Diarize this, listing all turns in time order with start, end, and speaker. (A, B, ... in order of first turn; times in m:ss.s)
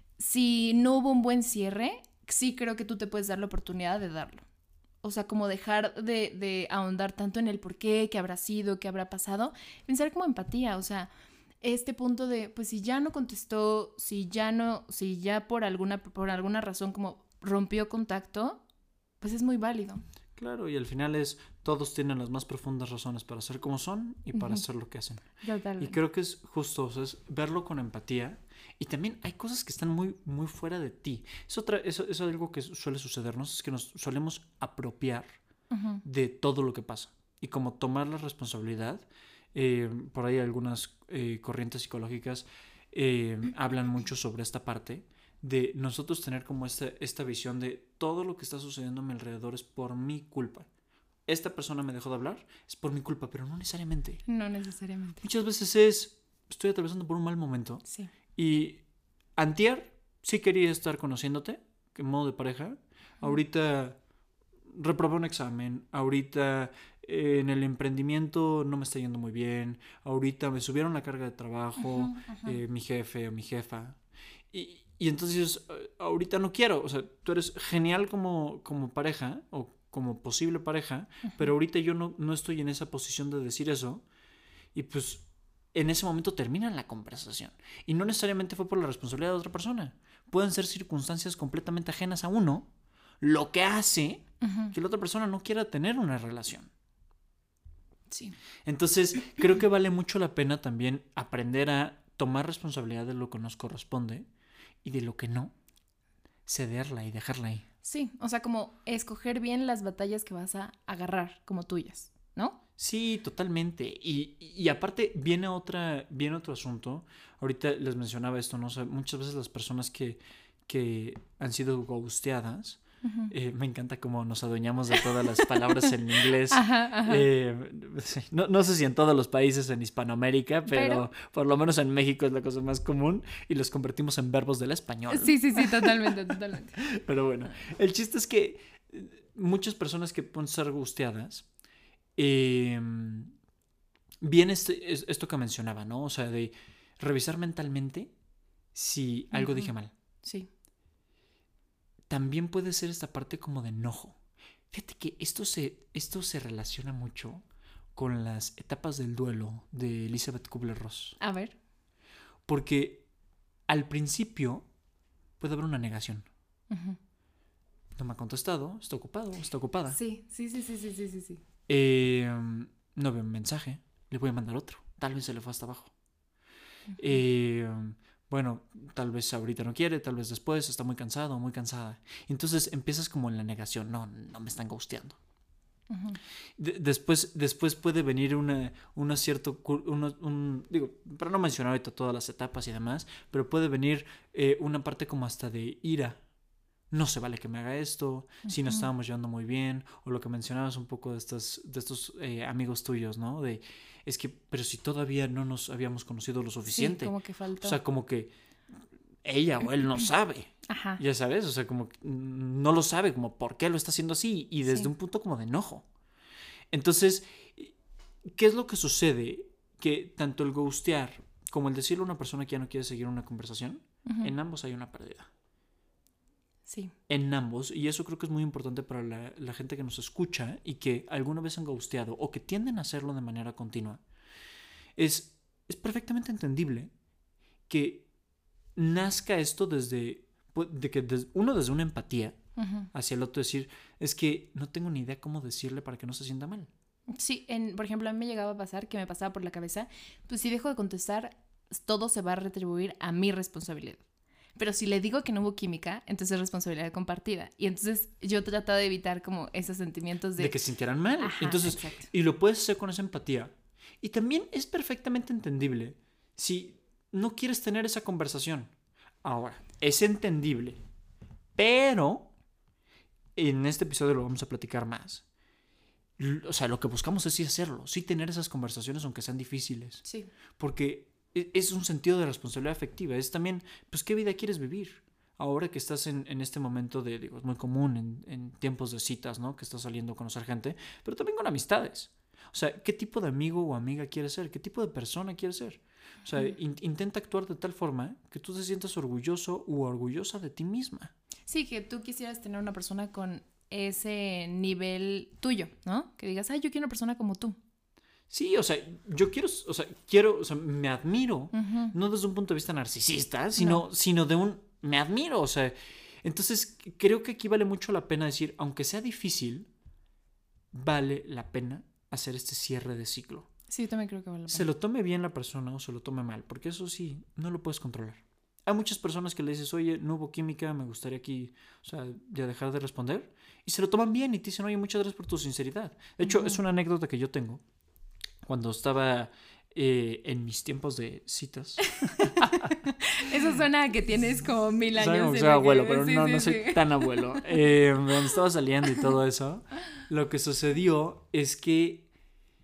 0:00.2-0:04.4 A
0:05.0-0:11.1 A
0:11.6-0:18.6 A
0:19.2-0:20.0 A
0:20.4-0:25.2 B
0:24.3-0:24.6 A
0:25.4-0:26.0 A
0:25.8-0:35.3 B
0:35.7-0:36.0 A
0:36.0-0:50.7 B
0:51.2-0:54.2 B
0:54.3-0:55.2 A
0:55.2-0:57.8 B
0:58.3-0:58.8 B
0:59.4-1:04.0 B
1:04.7-1:14.0 B
1:11.8-1:12.6 A
1:14.5-1:24.0 B
1:21.2-1:21.5 A
1:24.7-1:32.7 B
1:33.2-1:36.7 B
1:34.4-1:34.7 A
1:38.1-1:38.4 A
1:38.6-1:44.3 B
1:44.8-1:45.5 B
1:46.5-1:47.6 B
1:47.8-1:52.6 A
1:52.8-2:16.2 B
2:03.0-2:03.3 A
2:06.5-2:07.3 A
2:10.7-2:11.0 A
2:15.1-2:16.8 A
2:16.8-2:21.4 B
2:22.2-2:23.3 B
2:24.2-2:28.1 B
2:28.7-2:29.9 B
2:29.3-2:29.7 A
2:30.2-2:30.5 A
2:32.1-2:34.2 B
2:34.7-2:41.2 B
2:41.2-2:41.6 A
2:42.4-2:43.0 B
2:43.7-2:44.6 B
2:45.4-2:46.3 B
2:46.7-2:47.0 A
2:48.0-2:50.0 B
2:49.9-2:51.4 A
2:51.7-2:55.9 B
2:56.9-2:57.2 A
2:57.0-3:05.2 B
3:05.9-3:06.2 A
3:06.6-3:16.2 B
3:16.9-3:28.3 B
3:18.4-3:18.9 A
3:26.7-3:27.8 A
3:29.2-3:35.8 B
3:30.7-3:31.0 A
3:36.7-3:37.7 B
3:38.3-3:45.3 B
3:44.0-3:44.3 A
3:46.7-3:46.9 A
3:47.1-3:54.0 B
3:55.0-3:56.9 B
3:57.7-3:58.0 B
3:58.8-4:02.4 B
4:02.6-4:02.9 A
4:02.9-4:06.7 B
4:07.1-4:14.0 A
4:14.6-4:20.5 A
4:20.4-4:28.7 B
4:21.2-4:22.1 A
4:29.2-4:30.8 B
4:31.6-4:32.3 B
4:33.3-4:35.2 B
4:36.2-4:40.0 B
4:40.0-4:40.3 A
4:40.6-5:01.1 B
5:01.5-5:07.6 A
5:08.3-5:19.7 B
5:11.5-5:11.9 A
5:13.6-5:13.8 A
5:20.7-5:23.5 B
5:23.7-5:24.7 A
5:24.5-5:37.6 B
5:36.2-5:36.6 A
5:38.4-5:42.8 B
5:42.0-5:47.7 A
5:44.9-5:52.1 B